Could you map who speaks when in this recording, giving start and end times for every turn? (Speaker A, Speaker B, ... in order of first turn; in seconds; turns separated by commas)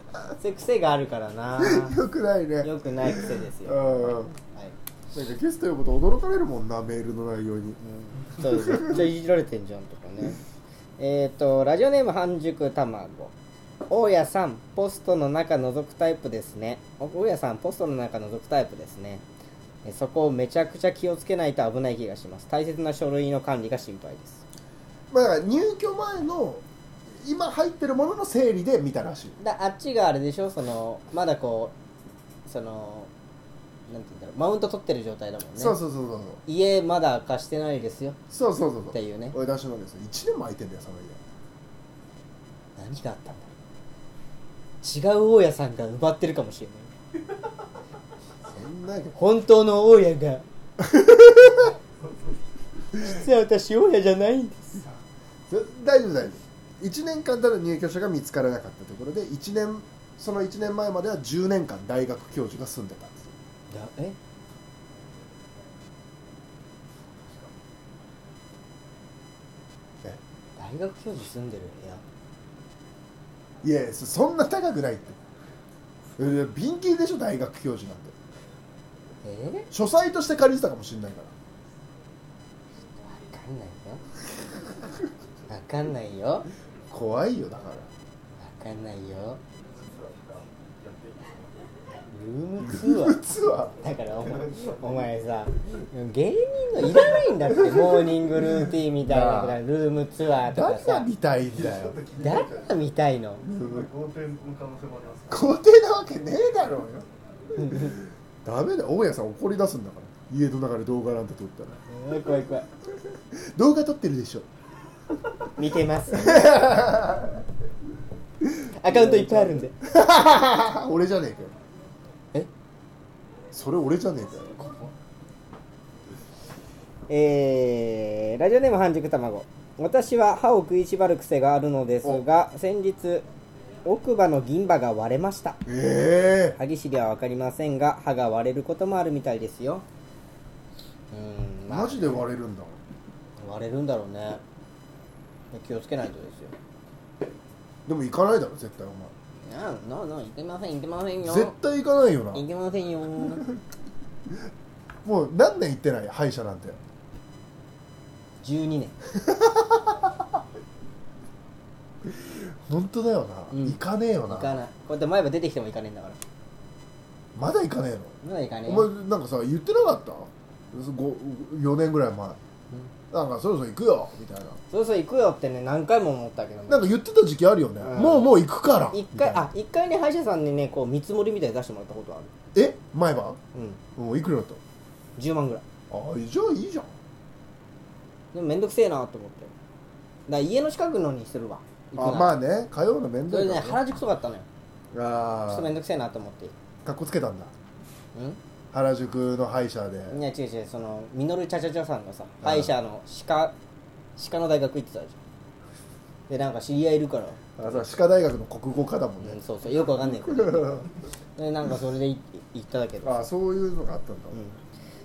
Speaker A: 0.4-2.0, Speaker B: 1.6-4.3, Speaker A: 2.6-4.7, Speaker B: 5.1-7.8, Speaker A: 7.8-10.4, Speaker B: 8.4-9.0, Speaker A: 11.0-13.3, Speaker A: 13.9-19.2, Speaker A: 19.8-24.4, Speaker B: 25.1-26.6, Speaker B: 27.2-29.4, Speaker A: 29.4-31.7, Speaker A: 32.5-33.1, Speaker A: 33.9-35.8, Speaker B: 35.6-36.4, Speaker A: 36.5-38.2, Speaker B: 38.3-41.2, Speaker A: 38.9-39.4, Speaker A: 42.8-43.5, Speaker A: 44.8-46.9, Speaker B: 48.5-49.1, Speaker A: 49.1-50.4, Speaker B: 50.8-51.7, Speaker A: 52.9-54.8, Speaker B: 55.5-63.4, Speaker A: 63.7-64.2, Speaker A: 70.6-72.0, Speaker B: 73.6-75.2, Speaker B: 76.2-78.1, Speaker A: 79.2-79.7, Speaker B: 79.7-81.3, Speaker A: 83.0-84.0, Speaker A: 85.5-86.5, Speaker B: 86.9-87.9, Speaker A: 88.4-89.4, Speaker C: 89.7-91.6, Speaker A: 92.1-93.2, Speaker B: 92.6-93.7, Speaker A: 93.8-101.1, Speaker C: 94.4-94.8, Speaker B: 97.5-99.6, Speaker B: 100.4-102.0, Speaker C: 101.4-102.9, Speaker A: 102.2-103.5, Speaker B: 103.4-103.9, Speaker C: 103.5-105.5, Speaker B: 105.3-107.0, Speaker A: 107.5-108.0, Speaker B: 108.4-111.8, Speaker A: 111.9-112.7, Speaker B: 113.3-114.5, Speaker A: 115.5-116.5, Speaker B: 116.1-117.4, Speaker B: 118.4-121.5, Speaker A: 118.8-119.7, Speaker B: 123.5-124.5, Speaker A: 127.1-133.2, Speaker A: 133.8-135.6, Speaker B: 135.7-136.6, Speaker A: 136.5-139.8, Speaker A: 141.1-142.2, Speaker B: 141.7-142.8, Speaker A: 143.4-144.4, Speaker A: 145.5-146.5, Speaker B: 147.8-149.1, Speaker A: 149.4-151.5, Speaker B: 151.2-152.4, Speaker A: 152.3-153.4, Speaker B: 155.0-156.8, Speaker A: 158.4-158.9, Speaker B: 159.2-160.1, Speaker B: 162.1-164.6, Speaker A: 163.5-166.2, Speaker B: 167.3-172.4, Speaker A: 168.2-168.9, Speaker B: 173.1-174.6, Speaker A: 174.7-176.9, Speaker B: 176.7-179.5, Speaker A: 177.8-178.3, Speaker A: 178.9-182.3, Speaker B: 182.5-183.4, Speaker A: 183.5-183.8, Speaker B: 183.9-184.6, Speaker A: 185.2-185.6, Speaker B: 185.9-186.9, Speaker A: 188.3-189.5, Speaker A: 190.3-192.3, Speaker B: 191.9-193.8, Speaker A: 193.3-194.4, Speaker B: 194.9-195.7, Speaker A: 195.5-196.5, Speaker B: 196.8-197.5, Speaker B: 198.7-200.2, Speaker A: 200.1-203.5, Speaker B: 202.4-202.7, Speaker A: 204.2-205.2, Speaker A: 206.3-207.8, Speaker B: 207.6-209.4, Speaker A: 209.2-213.1, Speaker B: 210.1-210.8, Speaker B: 213.0-214.4, Speaker A: 214.3-214.6